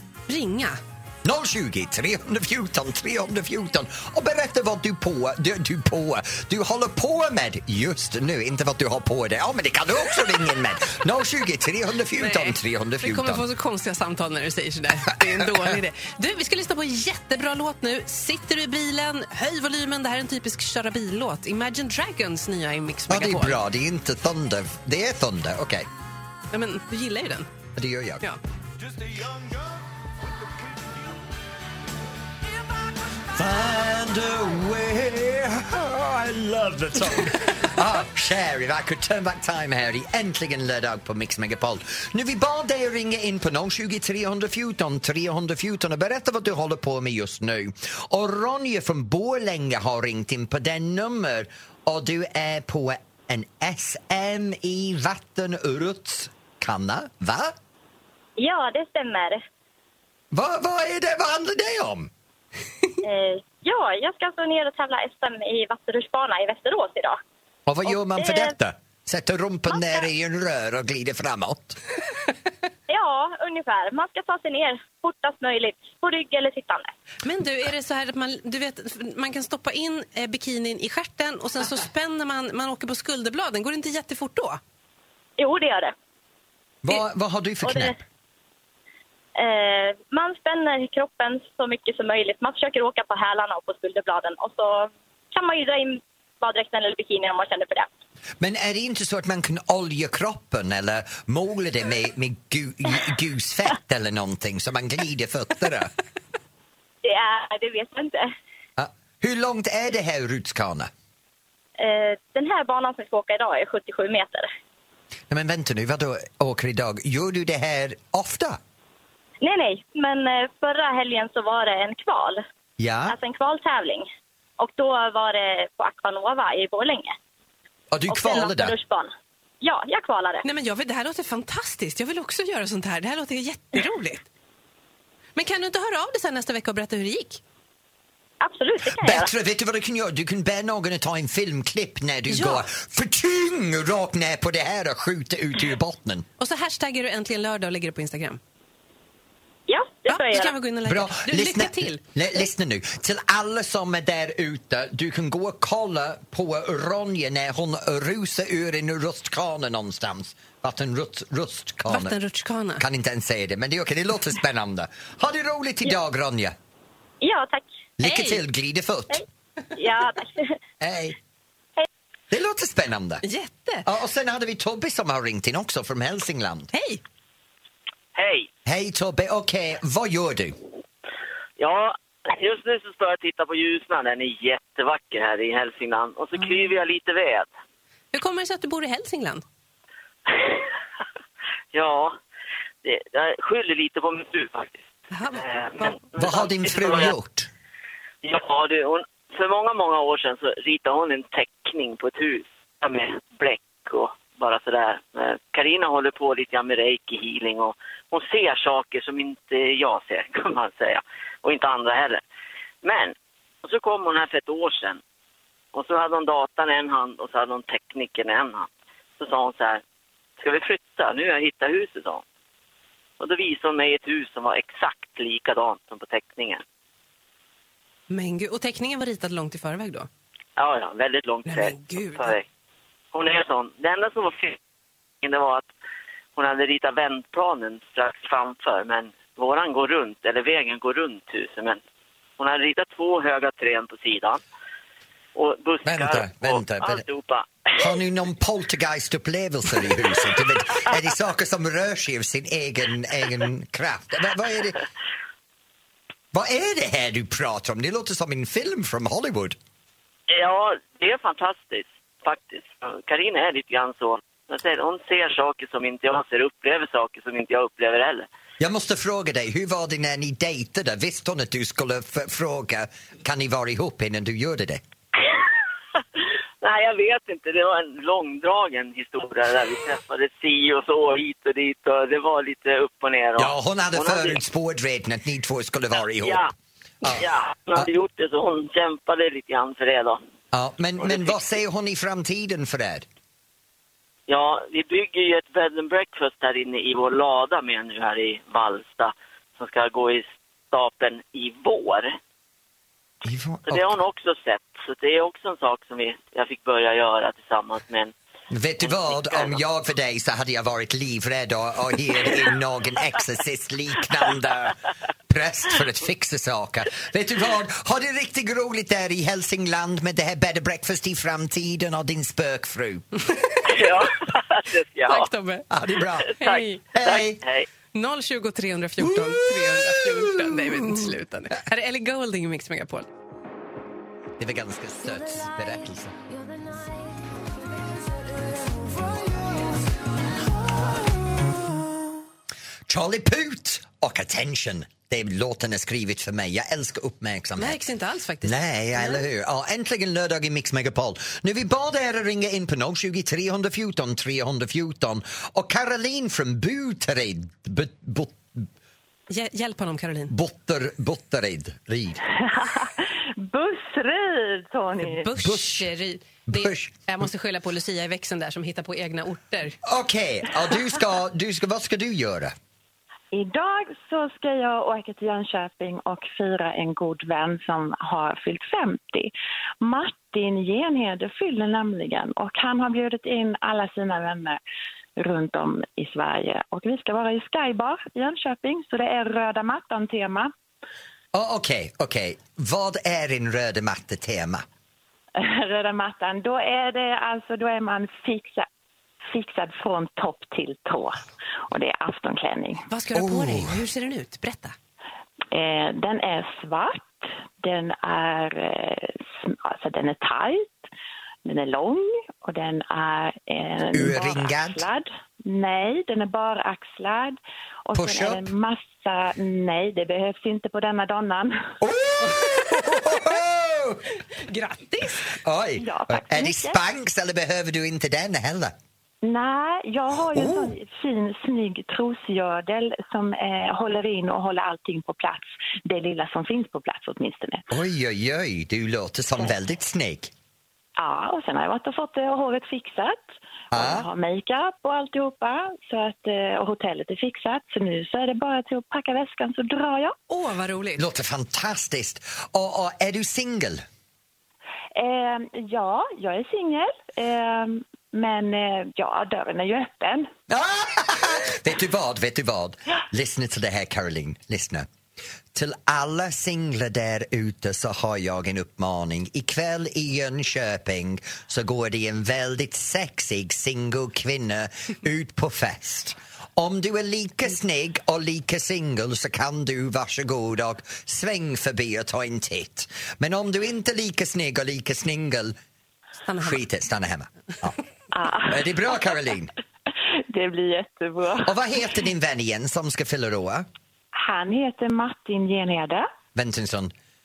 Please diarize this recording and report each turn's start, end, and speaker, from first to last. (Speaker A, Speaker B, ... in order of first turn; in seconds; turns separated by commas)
Speaker A: 0.3-0.8, Speaker B: 1.2-13.4, Speaker A: 12.2-23.6, Speaker B: 15.2-15.8, Speaker B: 23.1-25.9, Speaker A: 26.5-27.5, Speaker B: 27.8-28.2, Speaker B: 33.3-57.5, Speaker C: 58.4-59.4, Speaker B: 60.3-62.1, Speaker C: 63.0-67.2, Speaker B: 67.7-71.8, Speaker C: 68.2-68.5, Speaker C: 69.7-70.0, Speaker C: 72.9-76.9, Speaker A: 77.2-84.6, Speaker C: 85.4-85.9, Speaker B: 86.8-88.0, Speaker C: 87.6-87.9, Speaker C: 89.3-97.9, Speaker B: 98.4-105.9, Speaker C: 107.0-108.3, Speaker B: 108.8-110.9, Speaker C: 111.8-114.5, Speaker B: 115.3-118.6, Speaker C: 119.4-122.4, Speaker B: 122.8-123.2, Speaker C: 123.1-124.1, Speaker C: 124.6-127.1, Speaker B: 127.9-128.7, Speaker C: 128.1-129.1, Speaker C: 129.6-130.4, Speaker A: 130.4-134.2, Speaker A: 135.3-137.4, Speaker C: 138.4-139.3, Speaker B: 138.8-146.3, Speaker A: 142.3-142.6, Speaker A: 146.4-148.4, Speaker C: 149.7-150.5, Speaker A: 150.1-152.0, Speaker B: 150.8-162.2, Speaker A: 161.9-162.8, Speaker B: 162.8-166.6, Speaker C: 167.2-167.6, Speaker B: 168.0-169.2, Speaker A: 168.0-168.4, Speaker C: 169.1-170.5, Speaker B: 170.8-171.2, Speaker B: 172.3-173.2, Speaker A: 173.2-173.8, Speaker B: 173.8-176.7, Speaker A: 176.7-177.0, Speaker D: 178.1-178.5, Speaker B: 178.7-180.6, Speaker D: 181.6-187.5, Speaker A: 188.1-189.4, Speaker D: 191.7-192.2, Speaker D: 192.8-197.1, Speaker A: 195.1-195.9, Speaker B: 196.2-197.5, Speaker D: 198.2-212.2, Speaker D: 212.8-215.0, Speaker D: 215.7-219.8, Speaker D: 220.4-222.2, Speaker D: 223.2-226.6, Speaker A: 228.1-230.1, Speaker D: 230.6-232.4, Speaker A: 231.4-232.3, Speaker D: 233.1-234.6, Speaker D: 235.2-235.7, Speaker D: 236.3-241.8, Speaker D: 242.4-244.4, Speaker D: 245.3-248.0, Speaker B: 245.8-247.0, Speaker B: 247.8-254.8, Speaker D: 249.8-250.9, Speaker B: 256.3-259.6, Speaker D: 260.3-268.3, Speaker B: 268.6-274.8, Speaker D: 276.6-284.4, Speaker B: 283.4-286.4, Speaker D: 286.2-286.5, Speaker D: 287.0-290.2, Speaker B: 290.5-293.1, Speaker D: 291.0-291.4, Speaker D: 294.3-302.1, Speaker B: 303.2-304.0, Speaker D: 303.6-308.1, Speaker B: 308.5-323.1, Speaker D: 308.8-309.5, Speaker D: 323.6-325.3, Speaker A: 325.1-325.7, Speaker B: 325.7-326.4, Speaker D: 326.2-327.7, Speaker A: 326.4-326.8, Speaker B: 326.9-327.4, Speaker A: 327.9-333.1, Speaker B: 329.0-331.1, Speaker B: 334.4-336.2, Speaker B: 342.9-347.8, Speaker A: 347.6-349.2, Speaker B: 348.4-358.6, Speaker A: 359.3-360.3, Speaker B: 360.3-362.2, Speaker E: 362.5-365.2, Speaker A: 365.0-369.8, Speaker B: 365.4-365.9, Speaker B: 366.5-367.0, Speaker B: 369.8-372.5, Speaker E: 373.3-384.6, Speaker E: 385.2-390.5, Speaker B: 391.3-394.6, Speaker E: 395.4-398.6, Speaker E: 399.3-402.8, Speaker A: 402.9-404.7, Speaker B: 403.1-403.8, Speaker E: 405.5-410.7, Speaker E: 411.4-421.7, Speaker B: 413.9-414.8, Speaker B: 417.9-418.4, Speaker B: 421.8-424.0, Speaker A: 424.4-425.4, Speaker B: 425.3-428.7, Speaker E: 425.8-426.8, Speaker E: 429.2-437.6, Speaker B: 430.3-430.7, Speaker B: 437.7-440.3, Speaker E: 441.0-450.1, Speaker B: 443.7-444.1, Speaker A: 450.3-451.0, Speaker B: 451.0-453.8, Speaker E: 454.9-460.3, Speaker B: 460.5-464.9, Speaker B: 465.5-485.6, Speaker A: 486.3-486.6, Speaker B: 486.4-487.8, Speaker E: 488.1-488.7, Speaker B: 488.5-489.5, Speaker E: 489.9-491.5, Speaker B: 491.4-493.7, Speaker E: 494.1-496.1, Speaker B: 496.3-496.9